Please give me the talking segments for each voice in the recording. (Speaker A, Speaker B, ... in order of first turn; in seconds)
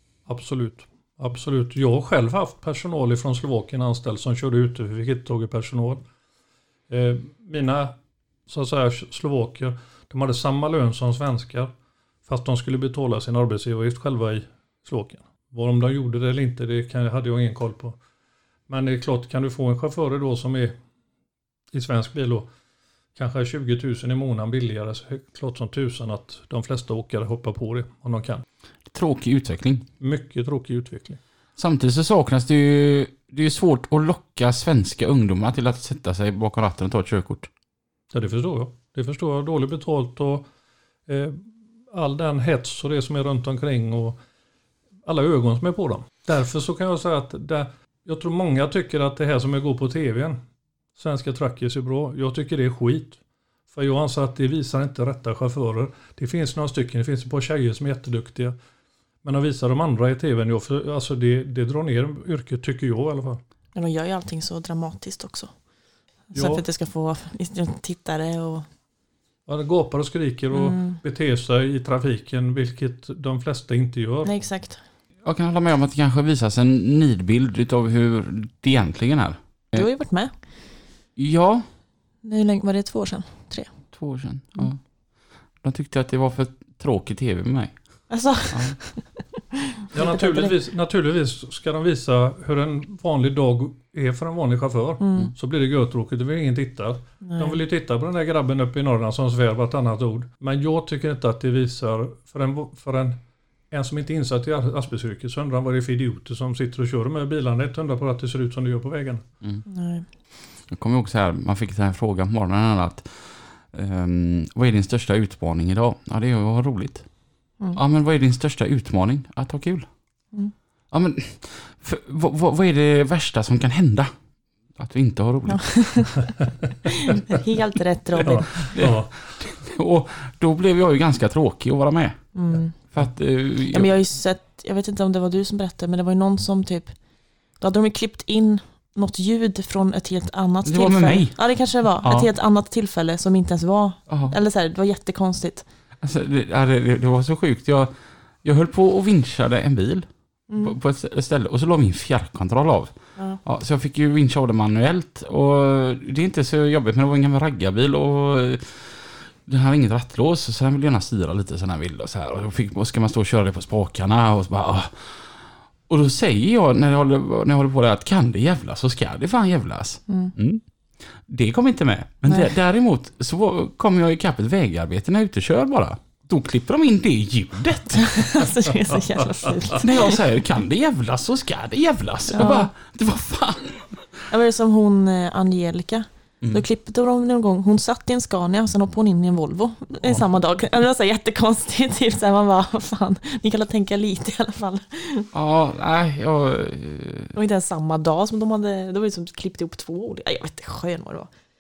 Speaker A: 0.3-6.0, 6.9-7.9, 8.5-11.7, 12.3-18.0, 18.7-20.7, 21.7-22.5, 23.1-28.4, 30.0-31.2, 38.1-40.5, 41.1-44.2, 45.0-50.4, 51.0-53.2, 53.7-58.5, 59.2-63.4, 66.3-66.7, 69.5-74.4, 89.9-103.2, 103.7-109.2, 128.2-129.3
Speaker B: 28.9-29.9, 31.6-37.5, 75.2-79.9, 81.2-81.7, 83.9-84.9, 85.6-88.8, 110.6-117.1, 117.7-119.9, 120.9-124.1, 124.8-126.2, 128.7-133.9, 140.7-142.3, 144.1-144.4, 146.0-178.3, 179.8-184.1, 195.3-197.3
Speaker C: 63.8-65.5, 66.3-68.7, 70.5-71.0, 74.2-74.8, 79.7-80.4, 82.2-83.7, 88.1-90.5, 95.0-95.3, 97.2-97.6, 109.7-110.1, 125.5-126.2, 127.0-128.8, 132.3-132.8, 133.7-145.7, 150.5-150.8, 170.1-170.3, 178.0-180.1, 182.3-182.7, 184.3-195.3, 197.3-201.3